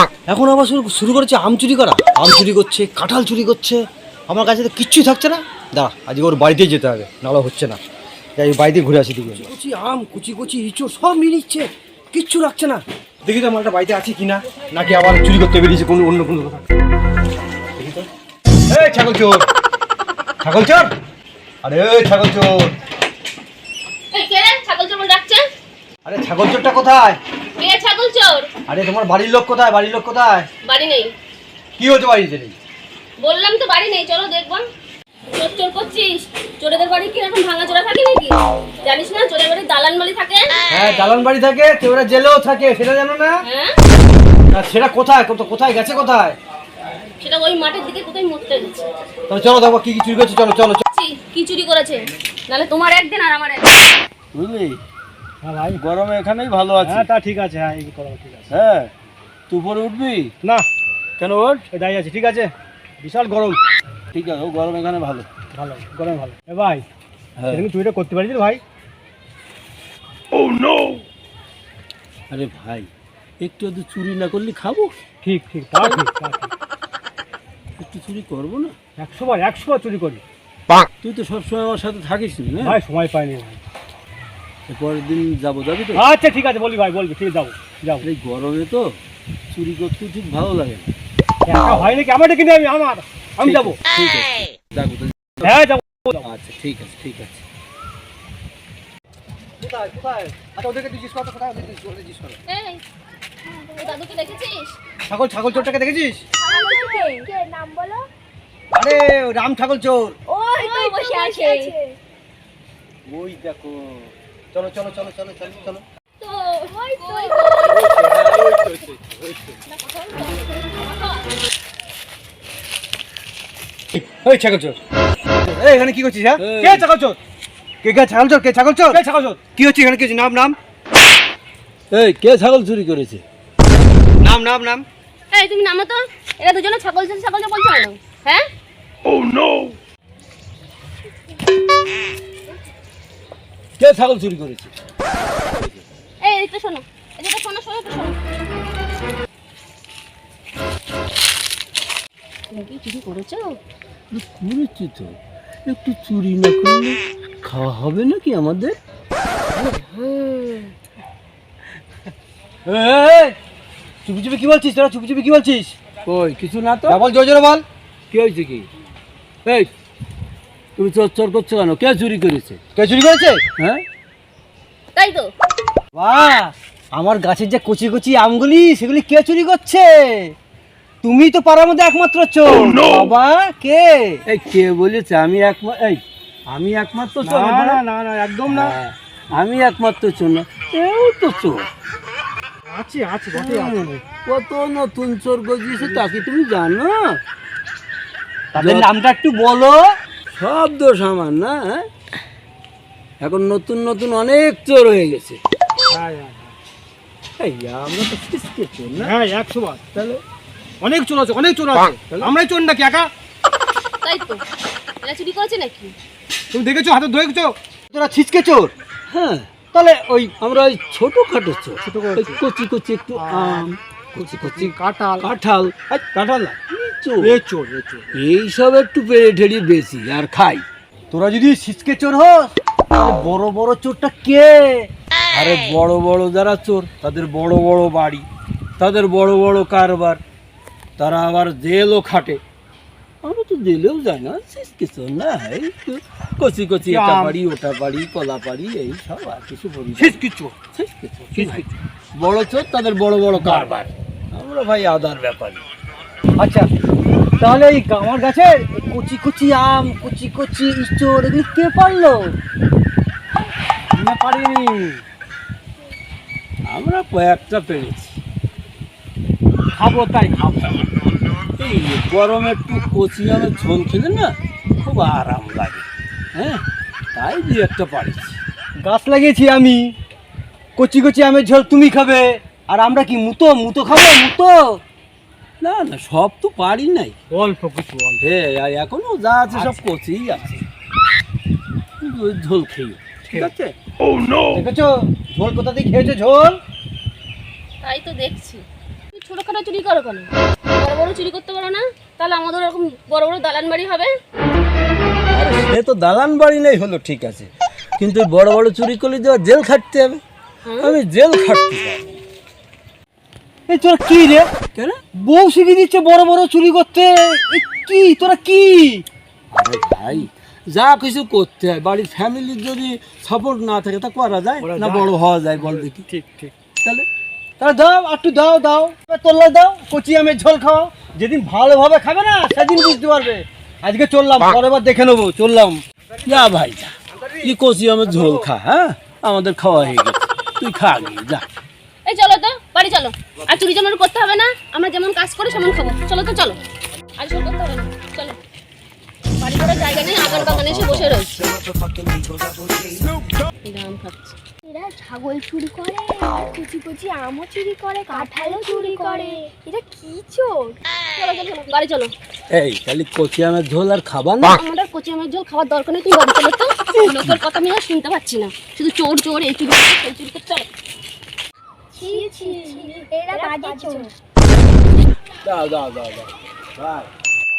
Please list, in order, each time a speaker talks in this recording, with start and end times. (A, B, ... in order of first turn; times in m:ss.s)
0:00.3-0:07.8 A
0:08.4-0:16.6 A
0:17.8-0:18.0 A
0:18.7-0:19.5 A
0:20.4-0:20.9 A
0:21.6-0:22.8 A
0:24.1-0:25.4 B
0:26.0-0:27.2 A
0:27.6-0:28.5 B
0:28.7-0:30.5 A
0:30.6-0:31.1 B
0:31.8-0:32.6 A
0:33.2-0:34.6 B
0:35.3-0:41.1 B
0:40.7-0:43.4 A
0:43.4-0:43.8 B
0:44.5-0:46.4 A
0:47.2-0:48.9 B
0:49.3-0:50.8 A
0:50.9-0:54.0 B
0:54.3-0:54.8 C
0:55.4-0:55.8 D
0:55.8-0:57.1 C
0:56.8-0:58.5 D
0:58.5-0:58.9 C
0:59.5-1:00.3 C
1:01.2-1:01.7 C
1:01.7-1:03.6 D
1:04.1-1:05.3 C
1:05.5-1:06.8 D
1:07.4-1:07.6 C
1:07.5-1:08.6 D
1:12.3-1:12.9 C
1:13.4-1:14.9 C
1:15.2-1:16.5 D
1:17.8-1:18.8 C
1:19.0-1:20.2 D
1:21.0-1:22.8 C
1:22.6-1:23.6 D
1:24.7-1:26.0 C
1:25.9-1:28.1 D
1:28.0-1:29.0 C
1:29.5-1:30.9 C
1:31.5-1:33.8 D
1:33.4-1:35.6 C
1:35.4-1:36.3 D
1:36.2-1:37.4 C
1:39.6-1:42.4 A
1:42.5-1:42.8 B
1:43.5-1:44.1 E
1:43.8-1:44.8 B
1:45.1-1:46.2 A
1:46.4-1:48.1 E
1:46.6-1:46.9 B
1:48.7-1:50.2 A
1:50.3-1:52.0 E
1:50.5-1:51.8 B
1:53.1-1:55.8 A
1:56.2-1:58.2 B
1:56.7-1:57.5 E
1:57.7-1:59.4 C
1:59.6-2:01.3 B
2:03.9-2:04.8 A
2:05.4-2:06.4 A
2:06.4-2:06.9 C
2:06.6-2:07.2 D
2:07.8-2:10.6 A
2:08.9-2:09.4 D
2:11.9-2:13.2 C
2:14.2-2:14.8 A
2:15.3-2:18.5 B
2:23.8-2:24.7 C
2:26.2-2:28.2 B
2:32.5-2:33.6 B
2:34.1-2:38.8 C
2:39.5-2:40.8 B
2:42.7-2:43.4 A
2:44.0-2:45.8 A
2:46.0-2:47.0 C
2:46.9-2:47.6 A
2:48.1-2:48.7 C
2:49.4-2:49.7 C
2:50.8-2:52.6 C
2:52.7-2:53.4 A
2:53.6-2:53.8 C
2:55.0-2:55.3 B
2:55.9-3:00.4 A
3:01.0-3:04.2 A
3:04.3-3:07.8 C
3:07.2-3:08.8 D
3:08.5-3:11.7 C
3:12.7-3:14.0 D
3:13.3-3:17.2 C
3:18.5-3:20.0 A
3:18.6-3:18.9 C
3:20.3-3:21.9 C
3:23.2-3:25.4 C
3:25.9-3:26.5 D
3:27.4-3:29.2 C
3:29.0-3:29.8 D
3:29.9-3:30.2 C
3:30.8-3:33.1 D
3:32.1-3:32.3 C
3:34.0-3:34.4 B
3:35.0-3:36.0 B
3:36.5-3:37.0 A
3:36.9-3:37.5 D
3:37.9-3:38.7 A
3:39.1-3:47.4 C
3:39.7-3:40.1 A
3:41.8-3:42.4 D
3:43.2-3:45.3 D
3:47.2-3:48.1 D
3:48.1-3:50.6 C
3:51.1-3:54.9 A
3:55.3-3:58.3 C
3:58.8-4:00.2 C
4:01.0-4:02.4 C
4:03.2-4:15.6 C
4:06.8-4:07.4 D
4:11.3-4:11.7 D
4:13.4-4:13.7 D
4:16.4-4:16.7 A
4:17.4-4:22.4 A
4:24.0-4:25.0 D
4:26.6-4:28.2 C
4:29.8-4:30.9 C
4:29.9-4:30.2 D
4:31.6-4:36.6 C
4:37.1-4:38.4 C
4:38.8-4:40.0 A
4:40.8-4:44.8 A
4:45.6-4:47.2 C
4:47.3-4:48.2 D
4:48.2-4:50.6 C
4:52.0-4:53.7 C
4:54.5-4:56.6 A
4:57.8-5:04.1 B
5:05.3-5:10.2 C
5:10.6-5:11.0 B
5:10.8-5:12.2 C
5:13.7-5:14.5 A
5:15.2-5:19.1 A
5:19.5-5:26.1 C
5:24.7-5:25.0 A
5:27.6-5:35.8 A
5:36.3-5:41.4 C
5:42.0-5:46.6 B
5:47.2-5:48.4 B
5:49.4-5:51.4 B
5:49.8-5:51.3 C
5:53.6-5:54.4 B
5:54.6-6:00.8 E
5:58.6-5:59.4 B
6:01.1-6:02.1 B
6:02.5-6:04.6 C
6:04.4-6:10.7 B
6:07.0-6:07.4 C
6:12.0-6:14.1 E
6:15.4-6:17.1 C